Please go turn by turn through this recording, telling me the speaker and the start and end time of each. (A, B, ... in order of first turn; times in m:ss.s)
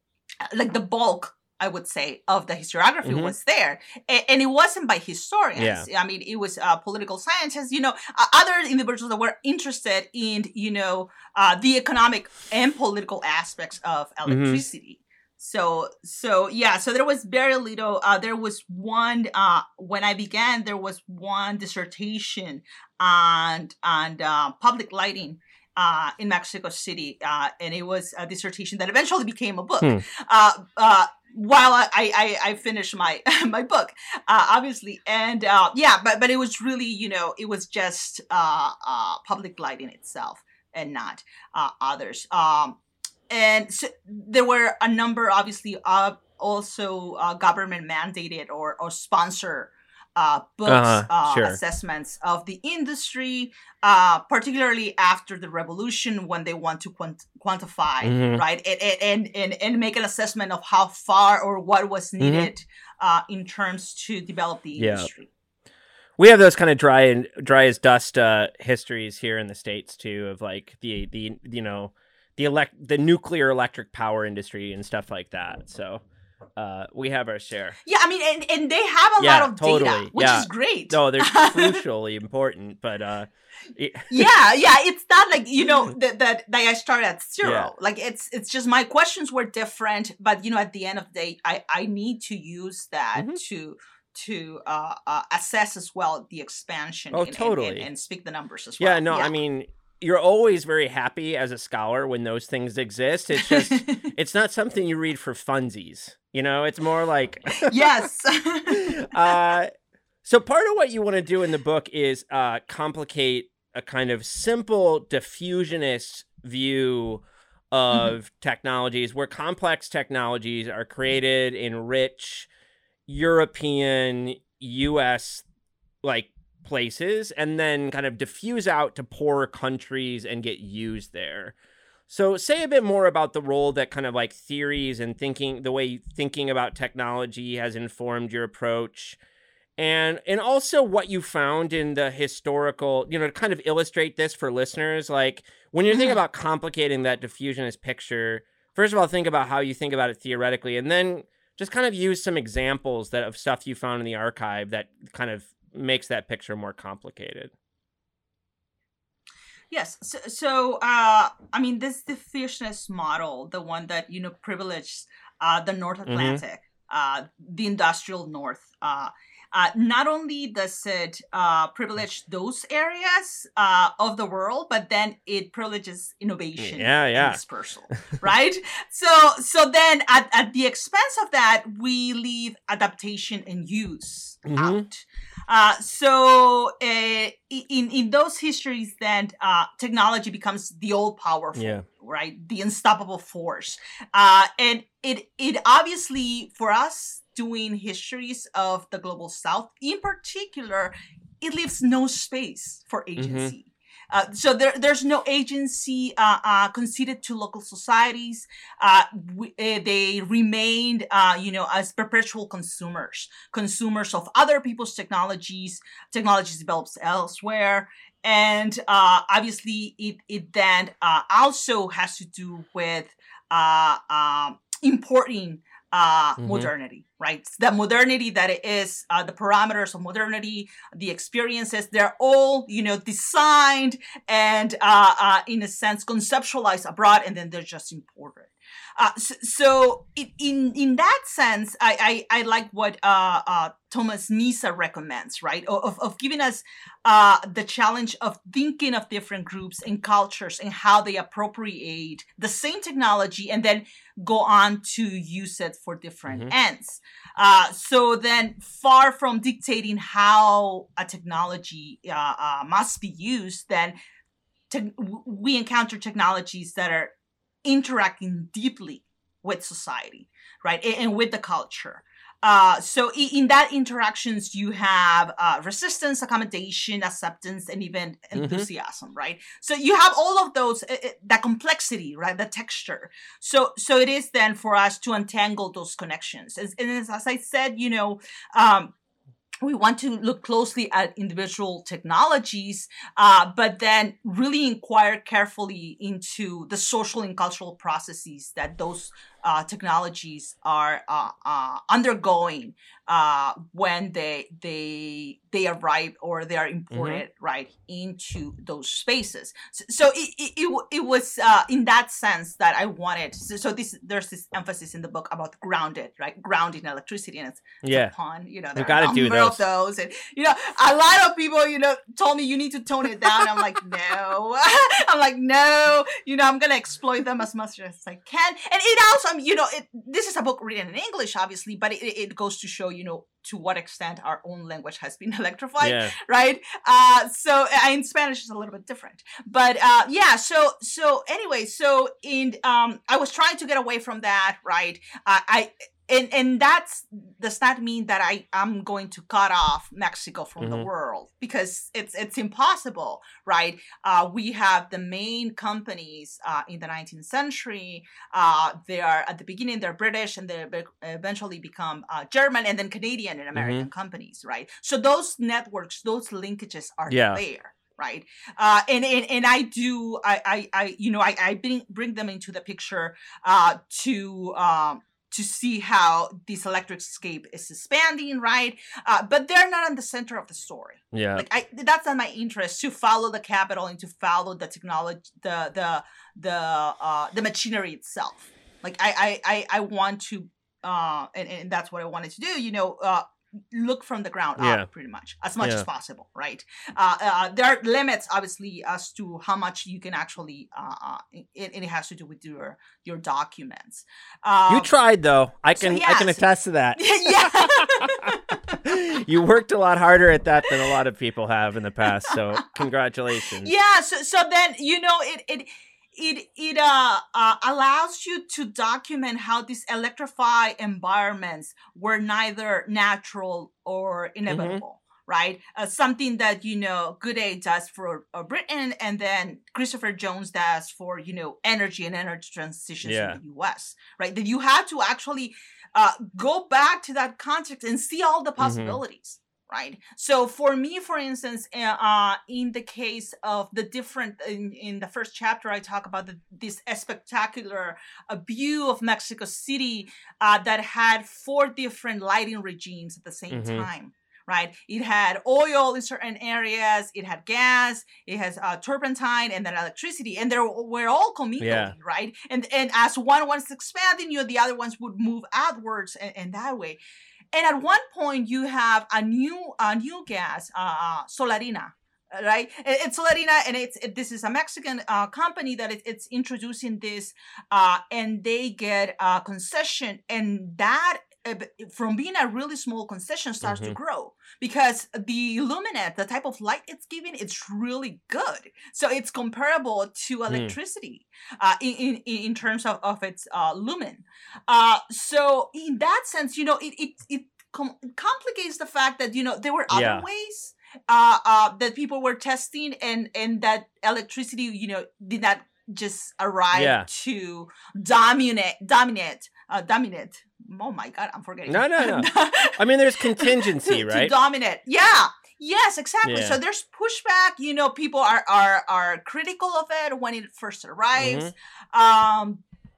0:00.5-0:42.8 A
0:03.0-0:03.3 B
0:05.6-0:05.9 B
0:14.2-0:14.6 B
0:43.3-1:05.3 A
0:50.6-0:51.6 B
0:58.0-0:58.4 B
1:02.2-1:02.5 B
1:04.8-1:05.1 B
1:06.2-1:16.0 B
1:16.6-1:17.8 B
1:17.8-1:21.8 A
1:19.2-1:24.3 B
1:24.1-1:39.4 A
1:27.4-1:27.7 B
1:37.1-1:37.9 B
1:38.8-1:47.8 B
1:43.3-1:44.1 A
1:47.6-1:49.4 A
1:48.9-1:49.7 B
1:50.2-2:02.5 B
2:03.1-2:05.4 B
2:06.0-2:11.5 B
2:12.1-2:19.2 B
2:19.8-2:37.5 B
2:25.9-2:26.2 A
2:39.7-4:24.0 A
2:46.1-2:46.4 B
2:56.6-2:57.4 B
3:04.4-3:04.8 B
3:11.6-3:11.8 B
3:23.2-3:23.5 B
3:46.4-3:46.7 B
4:24.7-4:27.1 A
4:27.6-4:48.9 A
4:38.3-4:38.7 B
4:49.6-6:44.9 A
5:06.9-5:07.2 B
5:17.8-5:18.1 B
5:18.8-5:19.6 B
5:35.8-5:36.1 B
5:50.6-5:50.9 B
6:03.5-6:03.9 B
6:07.1-6:07.4 B
6:21.1-6:21.4 B
6:34.6-6:34.9 B
6:44.7-6:48.3 B
6:45.7-6:46.4 A
6:46.9-6:48.8 A
6:48.8-6:53.7 B
6:52.0-6:52.7 A
6:53.6-7:47.0 A
7:04.5-7:04.8 B
7:13.0-7:13.4 B
7:18.6-7:19.0 B
7:33.5-7:33.9 B
7:41.6-7:41.9 B
7:47.5-8:42.6 A
8:03.6-8:04.0 B
8:10.5-8:10.7 B
8:19.9-8:20.2 B
8:26.7-8:27.1 B
8:31.7-8:34.3 B
8:36.2-8:36.6 B
8:41.2-8:41.5 B